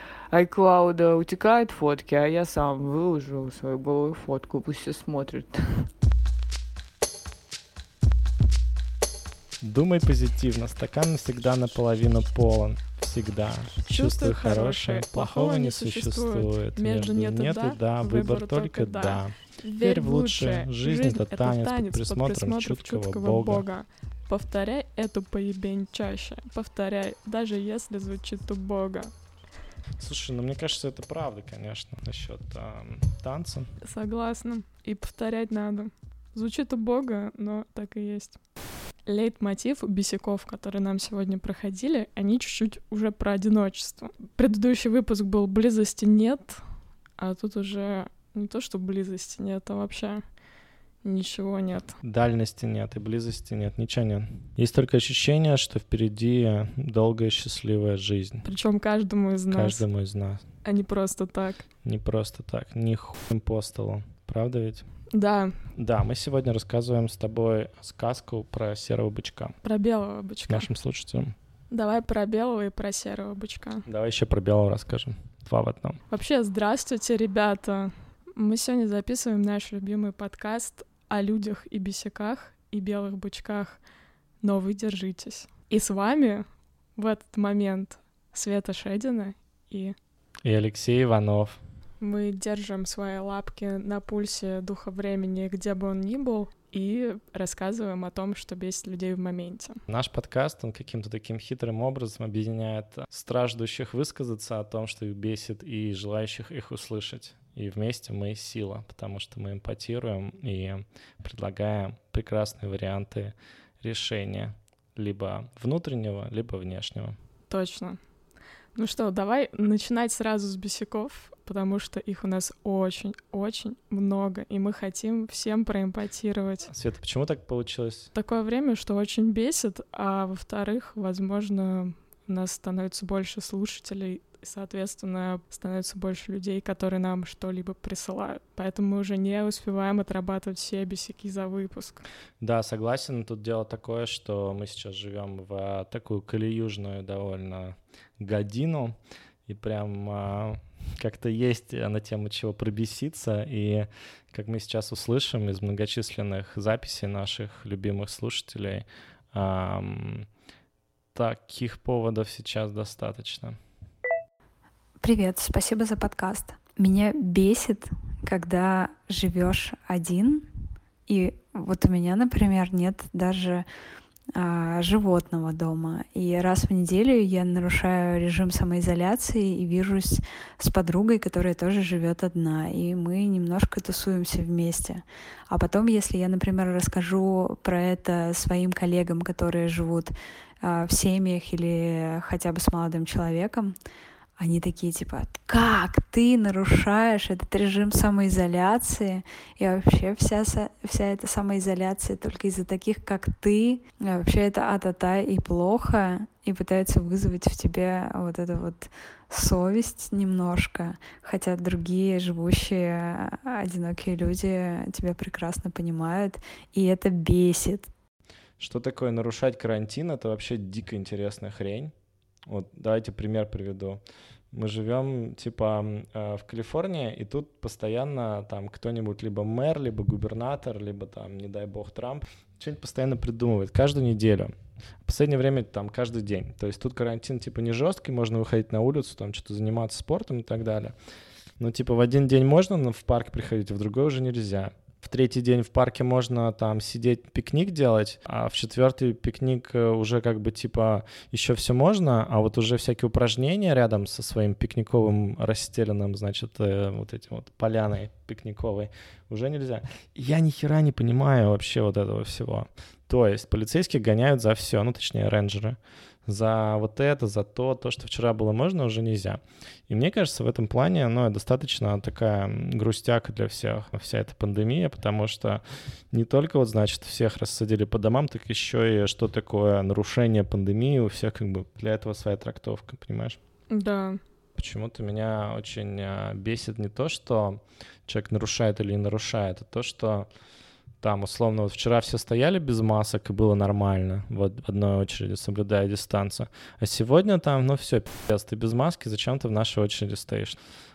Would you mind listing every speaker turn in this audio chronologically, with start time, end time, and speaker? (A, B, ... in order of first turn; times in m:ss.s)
0:00.3-0:05.9 A
0:09.6-0:23.6 B
0:13.9-0:29.1 C
0:30.0-0:33.7 B
0:33.8-0:38.4 C
0:39.1-0:46.6 C
0:47.2-0:50.2 C
0:51.0-0:52.0 C
0:52.0-0:58.4 B
0:58.4-0:59.8 C
0:59.5-1:00.4 B
1:00.6-1:01.6 C
1:01.8-1:04.9 B
1:05.1-1:05.6 C
1:05.8-1:09.6 B
1:09.6-1:10.7 C
1:10.5-1:11.3 B
1:11.7-1:13.8 C
1:13.9-1:16.0 B
1:16.1-1:23.8 C
1:24.4-1:30.0 C
1:30.4-1:31.6 B
1:32.0-1:39.8 C
1:39.9-1:57.2 B
1:57.5-1:58.0 C
1:58.8-2:06.7 C
2:06.7-2:08.1 B
2:08.1-2:22.0 C
2:22.4-2:40.3 B
2:41.2-2:43.6 B
2:45.0-2:50.5 D
2:51.1-2:53.7 D
2:54.3-3:13.8 D
3:14.4-3:37.9 D
3:38.6-3:41.9 B
3:42.5-3:44.0 B
3:44.5-3:54.5 B
3:55.1-4:00.9 B
4:01.6-4:43.4 B
4:43.7-4:44.2 C
4:44.6-4:50.3 B
4:51.0-5:00.6 B